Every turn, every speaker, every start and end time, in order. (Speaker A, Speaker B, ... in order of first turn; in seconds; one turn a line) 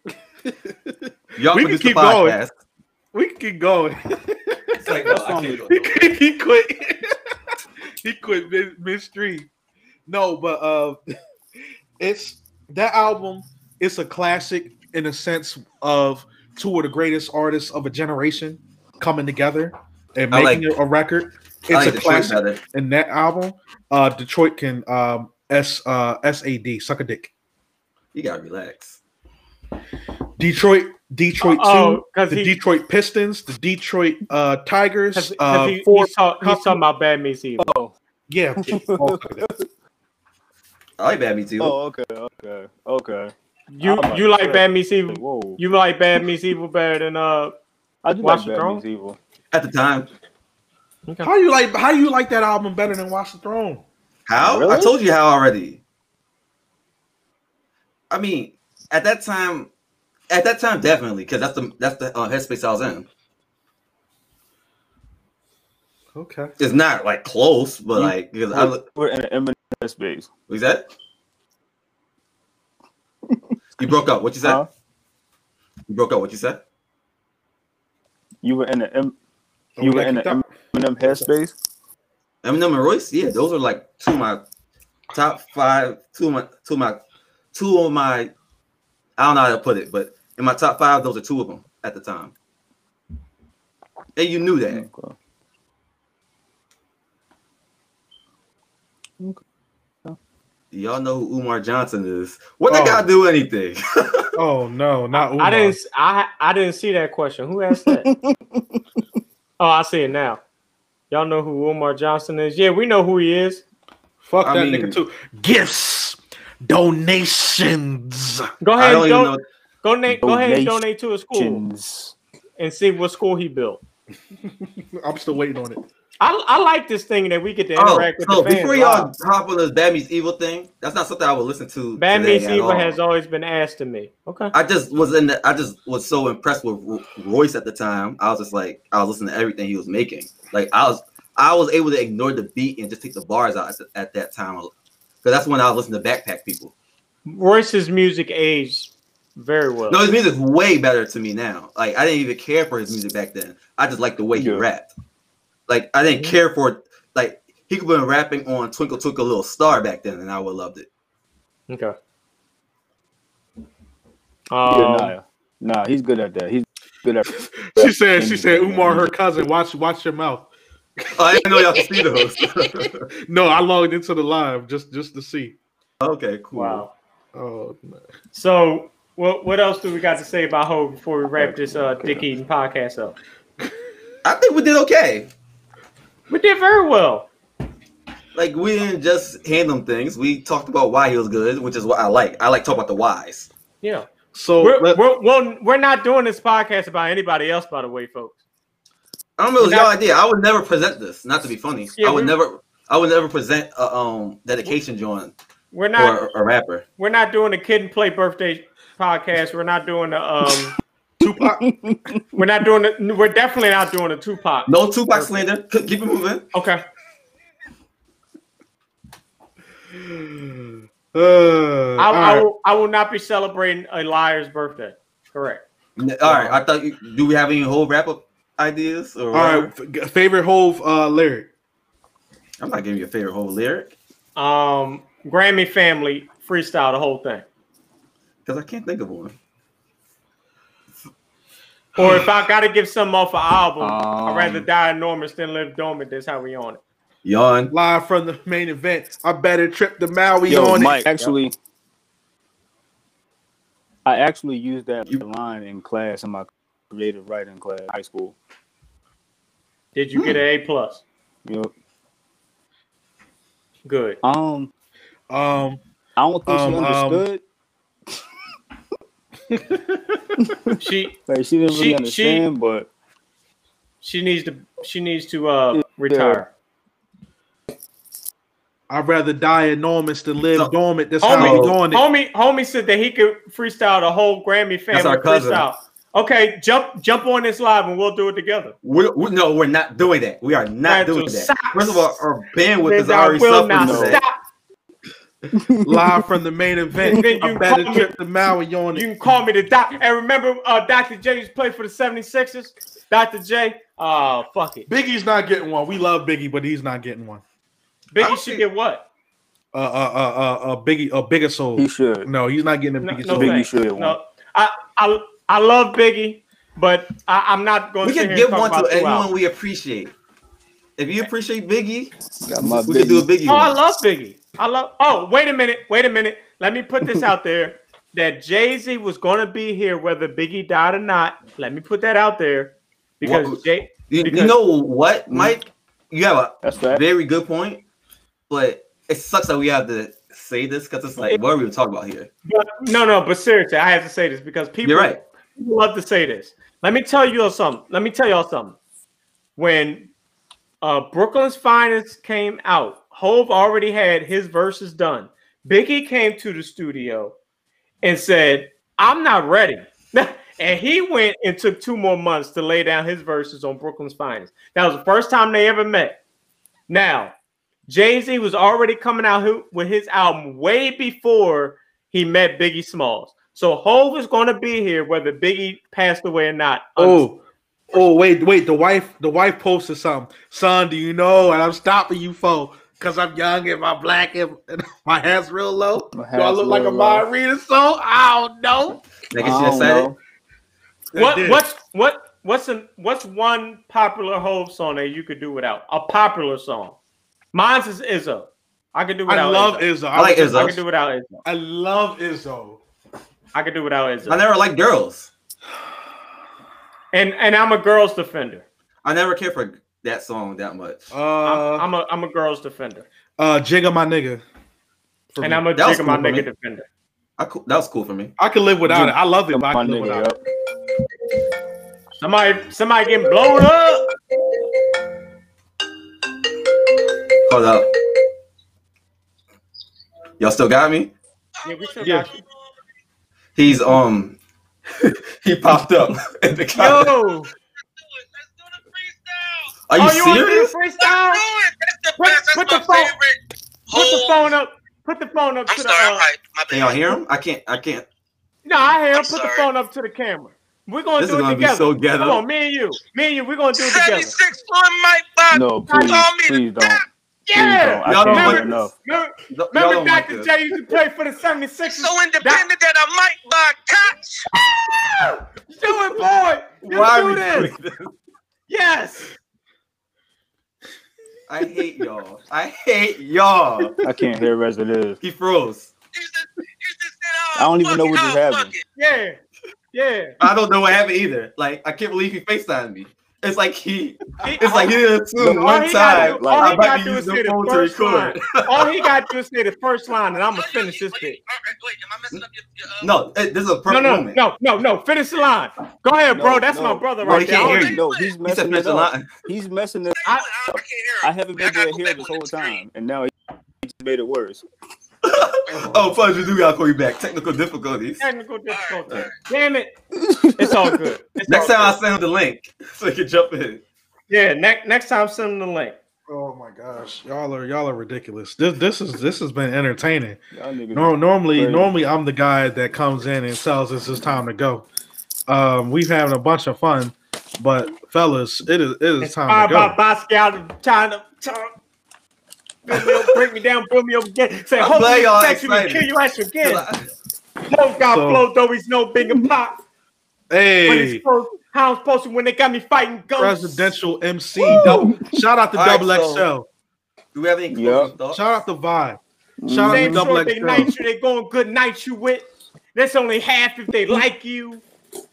Speaker A: 0.4-2.4
Speaker B: 1.4-2.5
Speaker A: 3.1-5.1
Speaker B: 4.8-6.1
Speaker C: 5.0-5.8
Speaker A: 5.7-7.1
Speaker A: 8.0-9.5
Speaker A: 10.1-11.0
Speaker A: 12.0-27.3
Speaker B: 20.3-20.7
Speaker B: 21.7-22.6
Speaker B: 28.1-29.0
Speaker A: 30.4-36.8
Speaker D: 31.4-32.6
Speaker D: 35.1-37.7
Speaker C: 37.6-37.9
Speaker A: 38.3-39.5
Speaker C: 38.6-39.6
Speaker B: 41.0-41.8
Speaker C: 41.6-45.6
Speaker D: 43.7-47.5
Speaker C: 48.0-49.2
Speaker D: 48.2-48.8
Speaker B: 49.5-50.1
Speaker A: 51.2-53.8
Speaker B: 54.3-55.8
Speaker C: 54.4-55.0
Speaker B: 58.1-59.7
Speaker B: 60.3-63.1
Speaker A: 66.1-66.5
Speaker B: 66.6-68.8
Speaker C: 67.9-70.3
Speaker B: 70.5-70.8
Speaker B: 73.8-74.6
Speaker C: 74.4-74.7
Speaker B: 75.9-76.6
Speaker C: 78.4-79.1
Speaker A: 79.8-81.3
Speaker C: 79.8-81.5
Speaker B: 82.4-84.4
Speaker B: 85.1-87.0
Speaker B: 87.5-88.3
Speaker B: 89.2-92.3
Speaker B: 94.2-94.8
Speaker C: 94.7-95.2
Speaker B: 100.7-104.3
Speaker A: 102.7-103.1
Speaker A: 104.3-105.8
Speaker D: 105.1-108.1
Speaker C: 108.0-108.8
Speaker D: 109.6-110.4
Speaker D: 111.1-113.6
Speaker A: 114.2-118.5
Speaker B: 114.4-115.0
Speaker D: 118.6-121.6
Speaker B: 118.8-119.4
Speaker C: 120.1-122.1
Speaker D: 122.6-123.8
Speaker A: 124.4-125.8
Speaker D: 126.2-129.1
Speaker B: 127.8-133.0
Speaker D: 132.0-134.5
Speaker B: 134.5-144.7
Speaker B: 145.2-146.7
Speaker D: 147.2-150.1
Speaker B: 149.9-154.9
Speaker C: 154.3-154.6
Speaker B: 155.7-160.9
Speaker D: 161.7-161.9
Speaker D: 164.5-165.1
Speaker C: 164.7-169.1
Speaker A: 167.4-170.5
Speaker A: 171.0-171.9
Speaker B: 171.2-173.0
Speaker A: 172.6-175.6
Speaker B: 176.0-176.8
Speaker D: 176.5-176.9
Speaker A: 177.3-178.0
Speaker D: 178.3-183.2
Speaker C: 181.4-182.3
Speaker B: 184.2-185.3
Speaker D: 186.3-187.3
Speaker B: 188.3-193.5
Speaker D: 193.8-194.1
Speaker A: 194.3-195.0
Speaker D: 194.6-198.4
Speaker B: 199.4-205.3
Speaker D: 199.6-199.9
Speaker D: 202.0-202.3
Speaker D: 205.7-206.2
Speaker B: 206.0-206.8
Speaker D: 207.0-210.7
Speaker A: 211.2-211.6
Speaker C: 211.4-212.4
Speaker D: 212.3-215.4
Speaker B: 214.7-216.5
Speaker D: 216.5-216.8
Speaker A: 219.9-222.5
Speaker D: 222.0-225.6
Speaker B: 226.0-229.7
Speaker A: 226.2-226.6
Speaker A: 229.3-231.5
Speaker B: 232.6-233.9
Speaker D: 234.3-237.4
Speaker B: 238.4-239.3
Speaker D: 241.9-246.8
Speaker C: 243.8-244.7
Speaker B: 247.2-247.7
Speaker A: 247.7-251.1
Speaker C: 250.5-251.6
Speaker C: 254.0-258.4
Speaker D: 259.9-261.0
Speaker C: 261.4-261.7
Speaker D: 263.8-264.2
Speaker C: 264.2-264.7
Speaker A: 265.3-265.8
Speaker C: 266.2-267.4
Speaker A: 266.4-267.2
Speaker A: 269.5-270.4
Speaker C: 270.4-270.8
Speaker D: 270.8-271.1
Speaker C: 271.3-272.9
Speaker D: 271.7-272.4
Speaker D: 274.0-276.5
Speaker C: 275.7-276.5
Speaker A: 278.9-282.0
Speaker D: 281.2-288.7
Speaker B: 281.3-281.8
Speaker B: 284.9-285.7
Speaker B: 288.8-294.2
Speaker D: 290.8-292.0
Speaker D: 292.8-294.3
Speaker C: 293.7-294.2
Speaker C: 295.5-296.2
Speaker A: 295.8-299.1
Speaker D: 297.1-298.1
Speaker D: 298.9-304.9
Speaker A: 304.9-307.4
Speaker D: 308.1-309.1
Speaker B: 308.2-308.6
Speaker A: 309.7-313.6
Speaker C: 311.8-312.3
Speaker D: 313.0-319.3
Speaker C: 313.3-314.2
Speaker B: 318.0-320.1
Speaker B: 321.0-322.1
Speaker C: 322.4-323.2
Speaker B: 322.6-323.8
Speaker D: 323.5-334.5
Speaker B: 333.2-337.8
Speaker C: 335.3-335.5
Speaker C: 336.6-337.0
Speaker B: 338.5-342.3
Speaker D: 342.4-348.8
Speaker B: 344.8-345.2
Speaker D: 349.6-350.1
Speaker D: 350.8-357.4
Speaker D: 358.0-366.2
Speaker D: 366.9-367.3
Speaker D: 367.9-377.2
Speaker A: 377.0-377.4
Speaker A: 377.9-389.0
Speaker C: 386.1-387.3
Speaker B: 389.3-390.1
Speaker C: 389.4-390.2
Speaker A: 391.1-391.6
Speaker D: 391.1-397.0
Speaker D: 397.5-399.9
Speaker A: 399.3-400.8
Speaker B: 400.1-400.8
Speaker D: 400.5-401.3
Speaker A: 401.4-402.8
Speaker D: 403.5-404.4
Speaker B: 404.2-405.3
Speaker D: 407.1-408.6
Speaker B: 409.0-411.1
Speaker A: 411.1-411.9
Speaker D: 411.4-413.1
Speaker A: 413.4-414.4
Speaker A: 415.3-415.6
Speaker D: 415.4-416.8
Speaker B: 415.8-416.4
Speaker B: 417.4-418.3
Speaker A: 418.4-420.4
Speaker C: 418.9-420.4
Speaker D: 422.2-424.1
Speaker B: 427.4-427.9
Speaker B: 430.4-431.1
Speaker E: 431.6-432.5
Speaker D: 431.6-432.4
Speaker B: 433.6-434.4
Speaker B: 434.9-437.1
Speaker D: 436.7-437.5
Speaker E: 437.8-439.7
Speaker B: 439.9-440.7
Speaker D: 439.9-441.4
Speaker E: 441.0-444.5
Speaker D: 442.2-443.1
Speaker D: 443.9-446.2
Speaker E: 445.7-447.2
Speaker B: 446.7-448.1
Speaker D: 448.6-454.3
Speaker E: 449.1-449.7
Speaker B: 451.2-452.4
Speaker E: 453.7-457.0
Speaker C: 455.5-457.0
Speaker D: 455.9-456.2
Speaker D: 457.4-462.6
Speaker C: 457.5-458.9
Speaker B: 458.0-458.9
Speaker B: 459.5-460.5
Speaker E: 461.9-464.5
Speaker D: 465.2-467.7
Speaker B: 466.8-468.1
Speaker D: 468.7-469.3
Speaker B: 471.5-473.9
Speaker A: 474.0-474.3
Speaker C: 474.0-475.2
Speaker B: 475.2-475.9
Speaker E: 476.1-478.8
Speaker C: 477.6-478.7
Speaker D: 478.9-479.4
Speaker D: 479.9-480.3
Speaker B: 480.4-489.1
Speaker D: 484.4-491.4
Speaker C: 486.1-486.8
Speaker E: 490.5-493.2
Speaker B: 493.0-494.4
Speaker D: 493.9-497.9
Speaker C: 496.3-500.2
Speaker B: 497.2-499.3
Speaker E: 497.7-498.3
Speaker E: 500.2-502.8
Speaker C: 500.7-503.3
Speaker C: 503.8-504.6
Speaker B: 505.2-508.2
Speaker A: 505.7-506.1
Speaker D: 508.2-509.9
Speaker E: 508.7-509.3
Speaker C: 510.1-511.0
Speaker D: 510.6-512.0
Speaker B: 511.5-513.8
Speaker D: 514.3-516.0
Speaker A: 516.3-520.4
Speaker C: 520.5-521.9
Speaker A: 520.9-524.9
Speaker A: 525.5-530.0
Speaker D: 529.2-531.7
Speaker D: 532.9-536.9
Speaker B: 534.8-536.1
Speaker B: 536.6-537.1
Speaker D: 537.7-539.8
Speaker A: 538.0-538.5
Speaker A: 540.5-541.2
Speaker D: 540.8-543.9
Speaker A: 543.4-546.7
Speaker C: 544.6-545.3
Speaker B: 545.7-546.5
Speaker B: 547.3-548.4
Speaker C: 547.7-548.1
Speaker A: 548.3-550.9
Speaker C: 549.6-550.3
Speaker D: 549.9-554.8